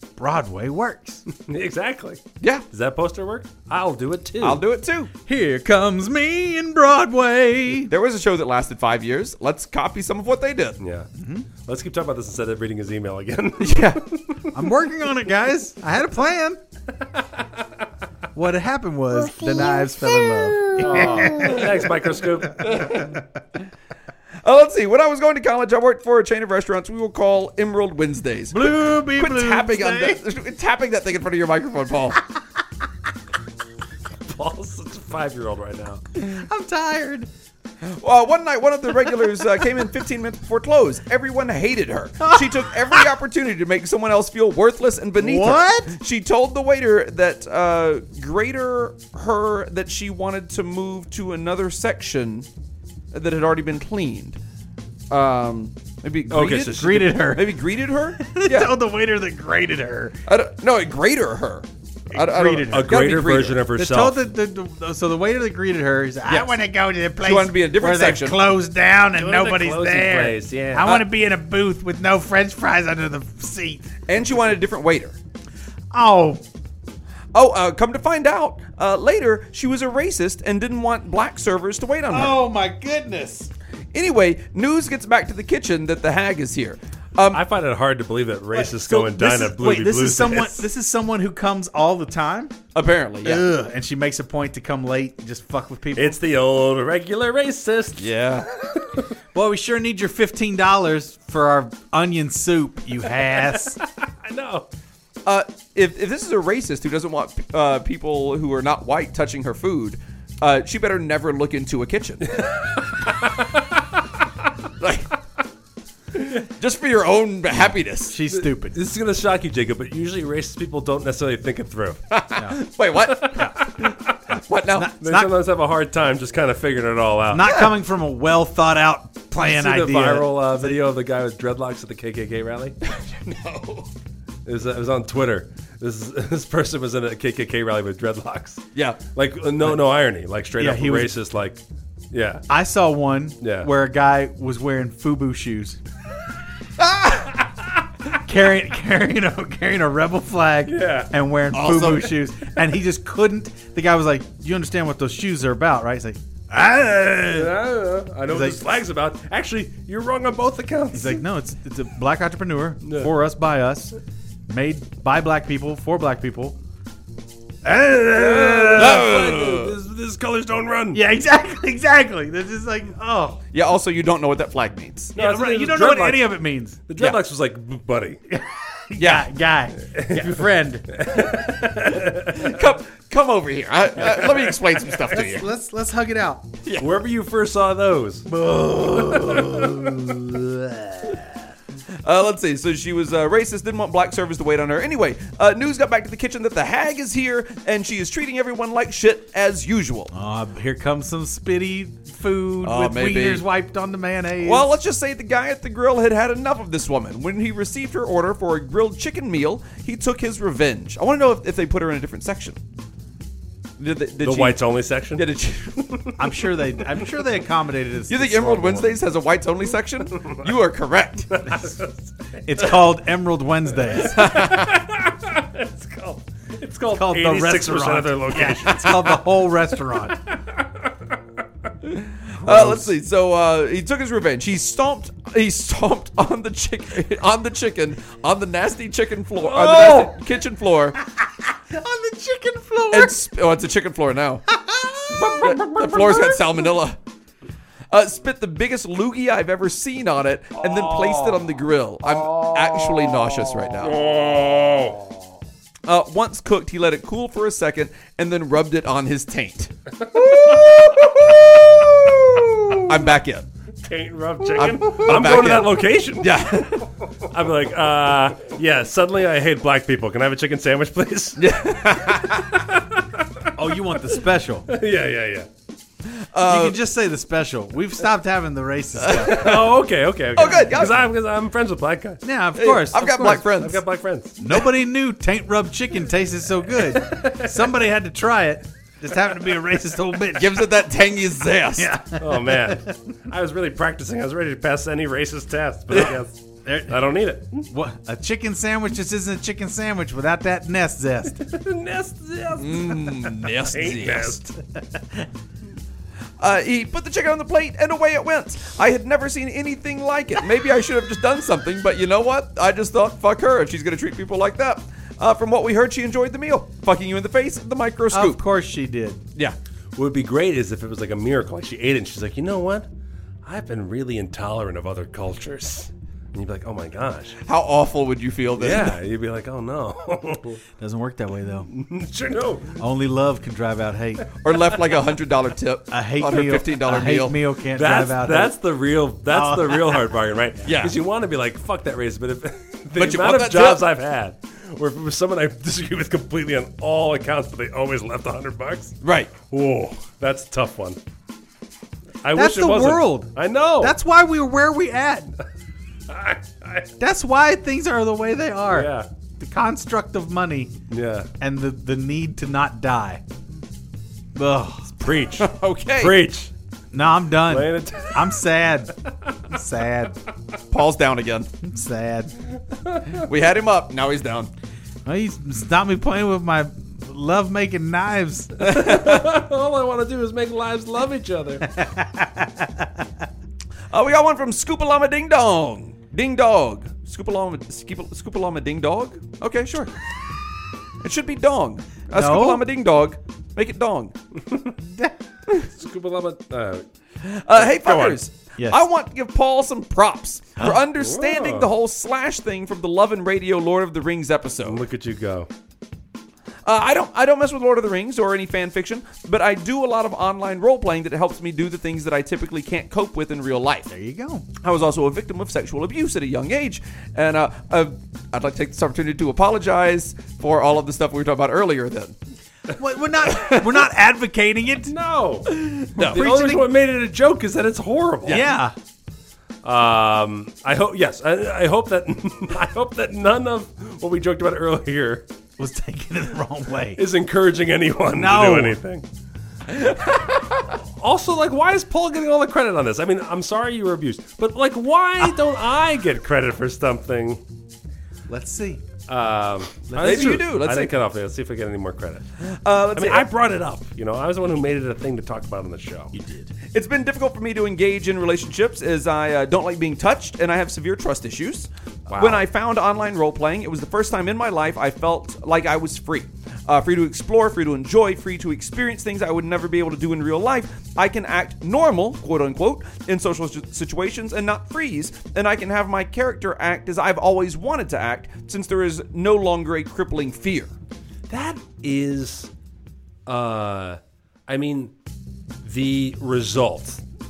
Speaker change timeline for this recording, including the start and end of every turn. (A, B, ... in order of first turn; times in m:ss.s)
0:00.2-0:01.2 A
0:01.2-0:04.6 B
0:04.4-0:05.1 C
0:05.3-0:07.9 A
0:07.9-0:10.8 C
0:10.8-0:11.1 B
0:11.1-0:11.5 A
0:11.6-0:14.5 B
0:13.6-0:14.2 C
0:14.5-0:16.6 A
0:18.3-0:21.9 A
0:20.7-0:22.8 B
0:21.0-0:21.6 C
0:22.6-0:23.2 C
0:22.7-0:23.2 A
0:24.4-0:32.2 C
0:28.5-0:30.2 A
0:34.2-0:36.0 B
0:36.1-0:37.3 A
0:37.8-0:52.5 C
0:42.2-0:43.1 A
0:45.2-0:46.0 A
0:53.1-0:54.4 C
0:55.1-0:58.7 C
0:56.3-0:57.3 B
0:56.6-1:00.2 A
1:00.3-1:03.6 C
1:02.1-1:03.1 A
1:02.7-1:04.2 B
1:03.8-1:13.9 A
1:07.2-1:08.4 C
1:09.1-1:11.0 B
1:14.1-1:15.2 C
1:15.9-1:16.4 A
1:17.3-1:22.4 C
1:22.1-1:23.5 A
1:23.9-1:27.4 C
1:27.3-1:30.6 B
1:28.5-1:32.6 A
1:32.7-1:33.5 C
1:33.2-1:36.2 A
1:36.0-1:38.2 B
1:38.0-1:38.5 C
1:39.3-1:43.8 A
1:43.4-1:44.7 B
1:45.3-1:52.4 C
1:52.3-1:53.7 B
1:54.8-1:55.1 C
1:56.2-1:58.2 C
1:58.1-1:58.8 A
1:58.3-2:02.0 B
2:02.1-2:03.9 C
2:03.2-2:03.5 B
2:03.3-2:03.7 A
2:04.3-2:05.4 A
2:04.5-2:04.9 C
2:05.0-2:07.6 B
2:07.3-2:10.8 A
2:09.4-2:12.8 B
2:12.8-2:13.9 C
2:14.4-2:22.4 B
2:20.6-2:21.2 A
2:22.5-2:25.8 A
2:23.4-2:23.7 B
2:28.1-2:37.6 A
2:30.6-2:31.1 B
2:31.5-2:32.2 C
2:37.3-2:41.2 B
2:38.3-2:38.6 A
2:40.9-2:44.0 A
2:42.8-2:43.1 B
2:44.5-2:46.6 A
2:47.6-2:49.0 A
2:48.1-2:51.0 B
2:48.8-2:49.7 C
2:50.9-2:53.4 A
2:53.5-2:55.1 C
2:55.1-2:58.2 B
2:55.2-2:56.8 A
2:58.3-3:01.0 A
2:59.0-2:59.3 C
2:59.8-3:02.6 B
3:02.3-3:05.5 C
3:05.0-3:06.5 A
3:06.6-3:06.9 C
3:06.8-3:08.3 B
3:08.3-3:11.3 A
3:09.0-3:09.9 B
3:12.0-3:20.1 C
3:20.1-3:24.7 A
3:22.6-3:23.4 C
3:24.4-3:32.6 C
3:33.8-3:36.0 C
3:34.2-3:35.3 B
3:35.9-3:36.2 B
3:36.2-3:39.0 A
3:38.1-3:41.4 C
3:40.2-3:40.5 B
3:41.3-3:42.7 B
3:42.4-3:44.5 A
3:43.9-3:49.2 B
3:44.2-3:44.7 C
3:46.9-3:50.2 A
3:50.1-3:51.2 B
3:51.9-4:01.0 C
3:52.4-3:53.0 A
3:59.4-4:00.1 B
4:01.0-4:03.2 A
4:02.9-4:04.4 C
4:04.5-4:06.7 A
4:05.1-4:07.0 C
4:07.9-4:14.0 C
4:10.9-4:11.3 B
4:12.2-4:13.2 B
4:13.7-4:15.1 B
4:15.8-4:23.5 C
4:20.0-4:21.3 B
4:23.8-4:33.5 B
4:24.6-4:26.9 C
4:31.4-4:32.6 C
4:33.6-4:34.7 A
4:34.7-4:35.5 B
4:36.3-4:36.8 C
4:36.4-4:39.6 A
4:39.0-4:39.6 C
4:39.2-4:42.2 B
4:40.3-4:41.0 C
4:42.2-4:43.5 A
4:42.6-4:43.8 C
4:43.6-4:44.4 B
4:44.4-4:50.8 A
4:46.8-4:47.8 B
4:50.3-4:51.9 C
4:51.7-4:53.1 A
4:52.2-4:57.7 B
4:55.9-4:57.0 A
4:57.6-5:01.4 A
5:01.4-5:04.5 B
5:02.6-5:04.4 C
5:04.7-5:05.3 A
5:06.4-5:18.4 C
5:18.1-5:19.2 A
5:20.0-5:22.9 B
5:23.4-5:27.4 B
5:27.4-5:29.0 C
5:28.6-5:30.6 B
5:30.8-5:31.7 A
5:31.7-5:32.8 B
5:32.8-5:34.3 A
5:34.4-5:37.4 C
5:35.9-5:38.6 A
5:37.7-5:49.0 B
5:39.3-5:40.6 A
5:40.6-5:41.0 C
5:43.0-5:43.9 C
5:49.0-5:49.3 C
5:49.5-5:51.0 B
5:52.2-5:54.0 B
5:52.3-5:55.3 A
5:56.1-5:56.9 B
5:57.0-6:00.7 A
5:58.7-5:59.1 B
6:00.9-6:01.3 B
6:01.4-6:03.2 A
6:04.3-6:04.9 A
6:05.0-6:06.5 B
6:05.4-6:06.1 C
6:06.9-6:08.9 A
6:07.4-6:08.3 B
6:09.4-6:10.2 A
6:10.7-6:11.5 C
6:11.6-6:12.3 A
6:12.7-6:13.2 B
6:13.2-6:14.5 C
6:15.0-6:18.6 A
6:18.6-6:21.7 B
6:18.7-6:19.2 C
6:21.6-6:23.3 A
6:23.9-6:29.9 C
6:31.0-6:34.1 C
6:32.1-6:32.6 A
6:34.5-6:34.7 B
6:34.8-6:35.2 A
6:35.6-6:36.9 B
6:37.2-6:44.8 C
6:37.5-6:38.2 B
6:41.0-6:41.7 B
6:44.6-6:45.5 B
6:46.6-6:53.9 C
6:53.9-6:54.4 A
6:54.6-7:02.1 C
7:02.7-7:04.9 A
7:03.3-7:03.8 C
7:04.9-7:08.4 B
7:06.0-7:06.7 A
7:08.3-7:08.5 C
7:08.3-7:08.7 A
7:09.6-7:15.3 B
7:15.6-7:17.0 A
7:17.0-7:19.0 B
7:18.1-7:18.8 A
7:19.7-7:20.6 C
7:20.8-7:27.4 B
7:28.3-7:28.8 A
7:29.1-7:32.3 B
7:29.9-7:30.5 A
7:30.0-7:30.9 C
7:32.4-7:33.3 C
7:32.9-7:36.2 B
7:36.1-7:36.5 A
7:36.7-8:00.7 C
7:42.1-7:42.5 B
8:01.3-8:02.5 B
8:03.3-8:04.9 B
8:05.6-8:07.0 B